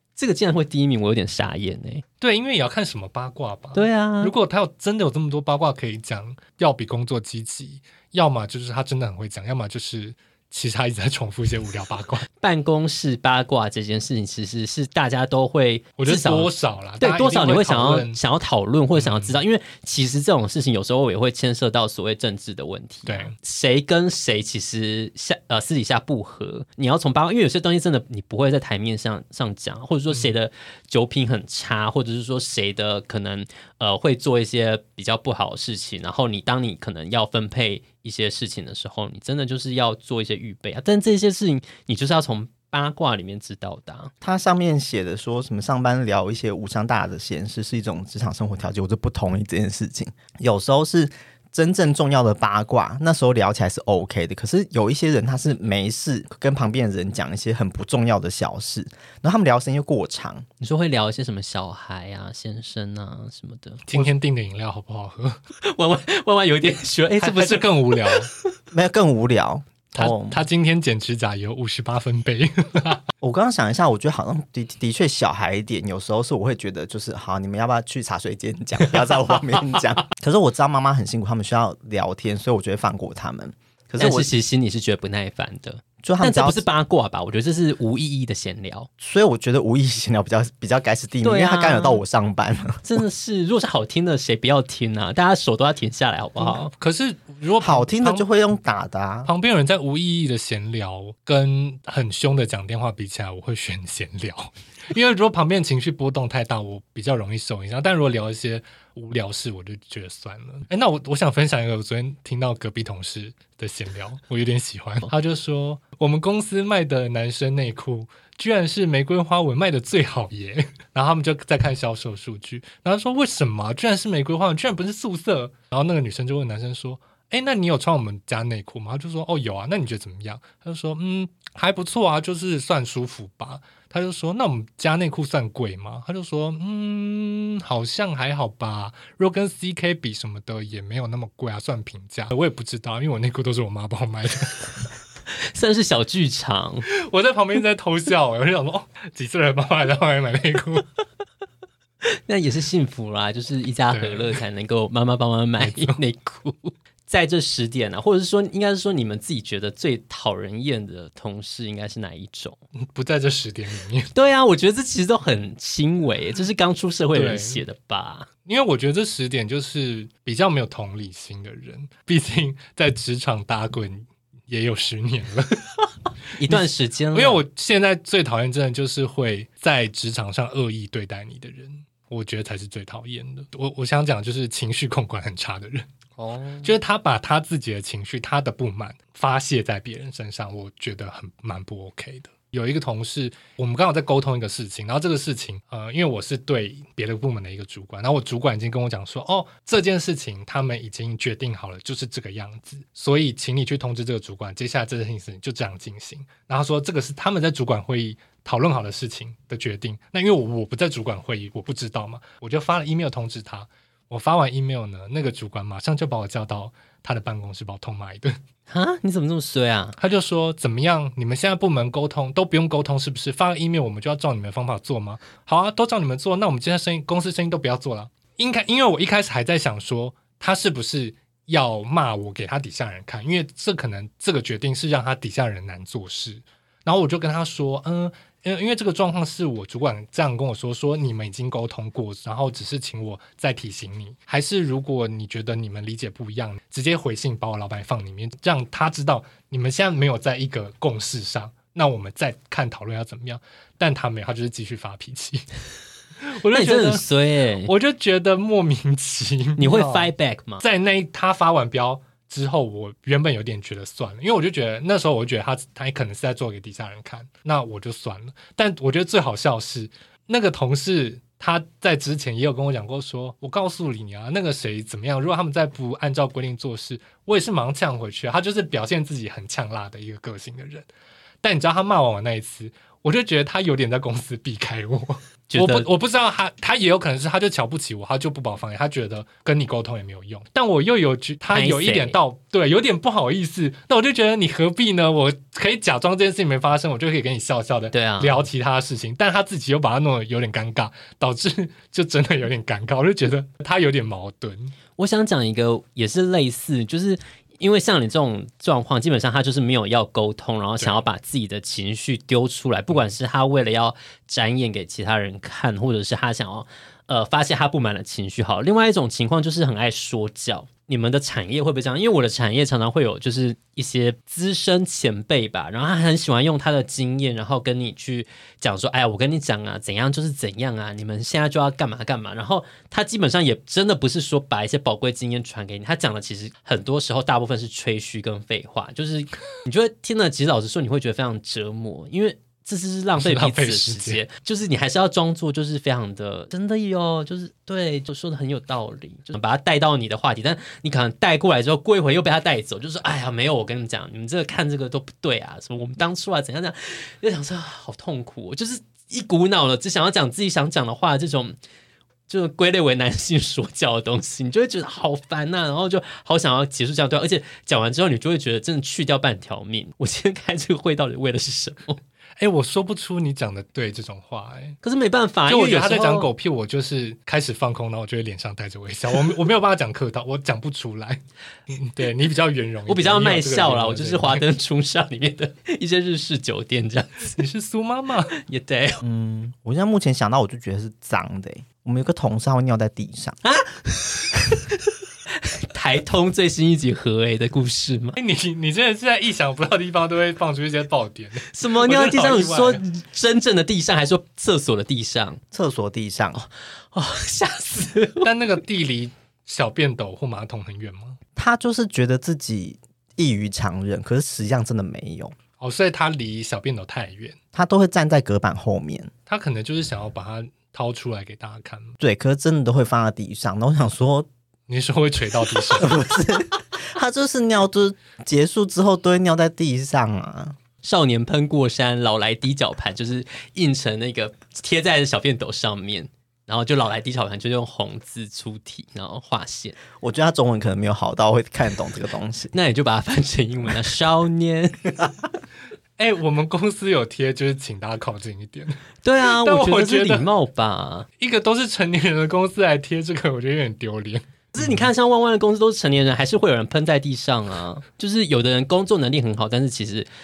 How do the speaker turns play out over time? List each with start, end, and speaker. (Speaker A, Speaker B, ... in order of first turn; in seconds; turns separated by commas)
Speaker A: 0.1-2.0, Speaker B: 2.2-12.3, Speaker A: 3.7-4.3, Speaker A: 12.4-44.1, Speaker B: 16.0-18.2, Speaker B: 18.9-19.4, Speaker B: 23.1-23.3, Speaker C: 44.2-60.5, Speaker A: 60.6-63.9, Speaker B: 63.9-65.4, Speaker A: 65.6-68.3, Speaker B: 67.2-68.3, Speaker C: 68.7-70.4, Speaker B: 70.0-73.0, Speaker C: 73.2-84.3, Speaker A: 84.0-88.9, Speaker C: 86.0-86.6, Speaker C: 89.0-92.8, Speaker A: 91.2-92.0, Speaker A: 92.8-96.7, Speaker B: 96.4-98.2, Speaker C: 97.6-99.3, Speaker B: 99.2-144.9, Speaker A: 145.3-146.8, Speaker B: 146.9-150.8, Speaker A: 152.2-162.6, Speaker B: 153.9-154.4, Speaker B: 155.6-156.0, Speaker B: 162.8-164.1, Speaker A: 164.1-168.3, Speaker B: 167.1-167.6, Speaker B: 168.4-175.8, Speaker A: 176.4-177.4, Speaker B: 176.4-185.9, Speaker A: 186.2-186.7, Speaker B: 186.6-218.4, Speaker A: 218.7-219.9, Speaker B: 220.0-255.4, Speaker B: 256.2-257.0, Speaker A: 256.5-257.7, Speaker B: 257.6-280.9, Speaker A: 259.6-260.6, Speaker B: 281.4-304.7, Speaker A: 285.5-285.9, Speaker A: 291.5-292.1, Speaker A: 297.9-298.5, Speaker A: 305.0-361.6, Speaker B: 343.2-344.2, Speaker A: 362.3-372.0, Speaker B: 372.4-374.8, Speaker A: 374.8-376.3, Speaker B: 375.5-384.4, Speaker A: 382.9-387.4, Speaker B: 387.3-388.3, Speaker A: 388.3-389.0, Speaker C: 389.0-393.4, Speaker A: 393.4-394.8, Speaker A: 395.3-398.2, Speaker B: 398.2-402.8, Speaker A: 401.4-405.4, Speaker C: 405.5-406.5, Speaker A: 406.9-408.3, Speaker B: 408.2-411.2, Speaker C: 411.4-415.3, Speaker B: 415.6-417.4, Speaker C: 417.5-419.1, Speaker B: 419.3-421.9, Speaker C: 422.0-424.3, Speaker B: 424.7-426.0, Speaker C: 425.7-430.6, Speaker A: 430.8-439.8, Speaker C: 440.0-442.5, Speaker A: 442.5-445.1, Speaker B: 446.0-450.3, Speaker A: 449.0-451.1, Speaker B: 451.2-454.9, Speaker A: 454.5-460.1